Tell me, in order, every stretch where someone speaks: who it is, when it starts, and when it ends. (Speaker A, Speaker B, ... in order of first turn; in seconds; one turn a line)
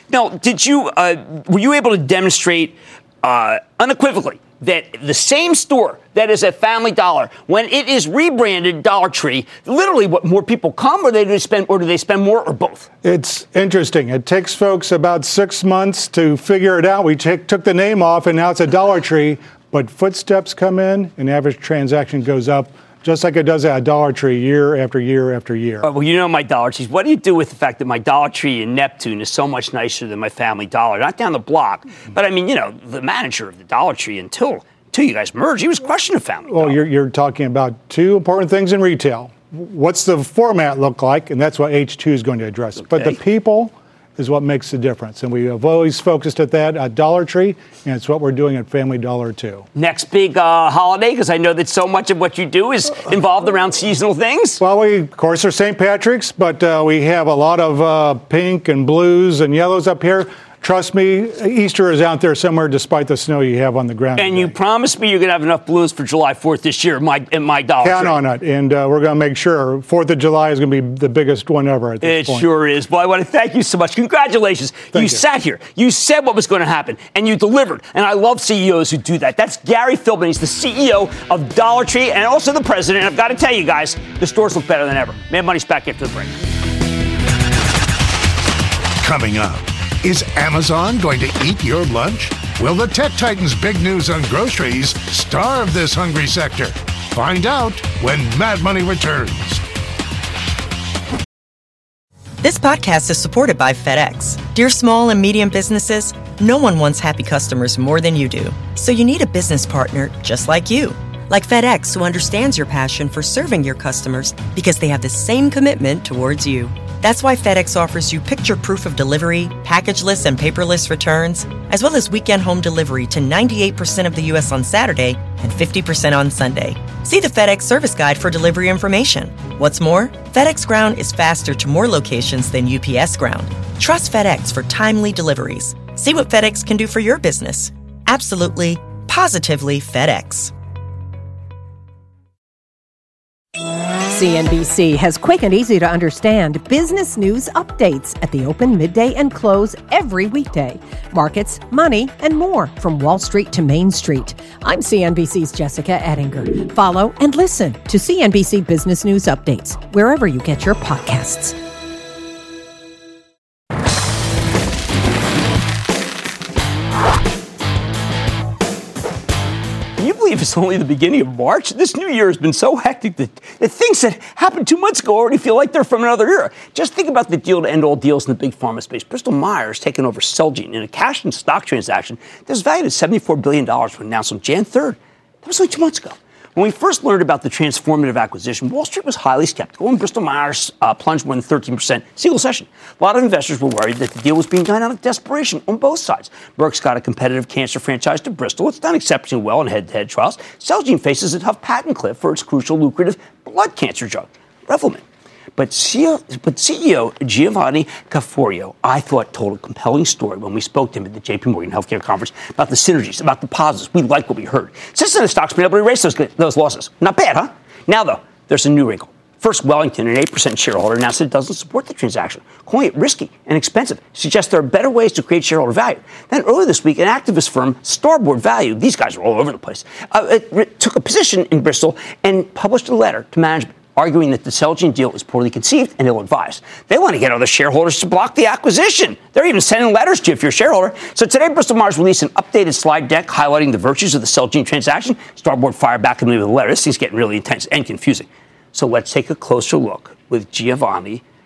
Speaker A: 0.1-12.9
Speaker B: 13.0-25.9
Speaker A: 25.8-36.8
Speaker B: 36.5-49.7
Speaker A: 42.8-43.2
Speaker A: 49.8-54.6
Speaker B: 54.6-64.5
Speaker A: 64.2-68.2
Speaker B: 67.8-72.5
Speaker A: 72.0-86.4
Speaker B: 74.9-75.2
Speaker C: 89.0-99.6
Speaker D: 102.4-140.5
Speaker E: 144.1-161.6
Speaker A: 170.0-205.0
Speaker A: 205.6-251.2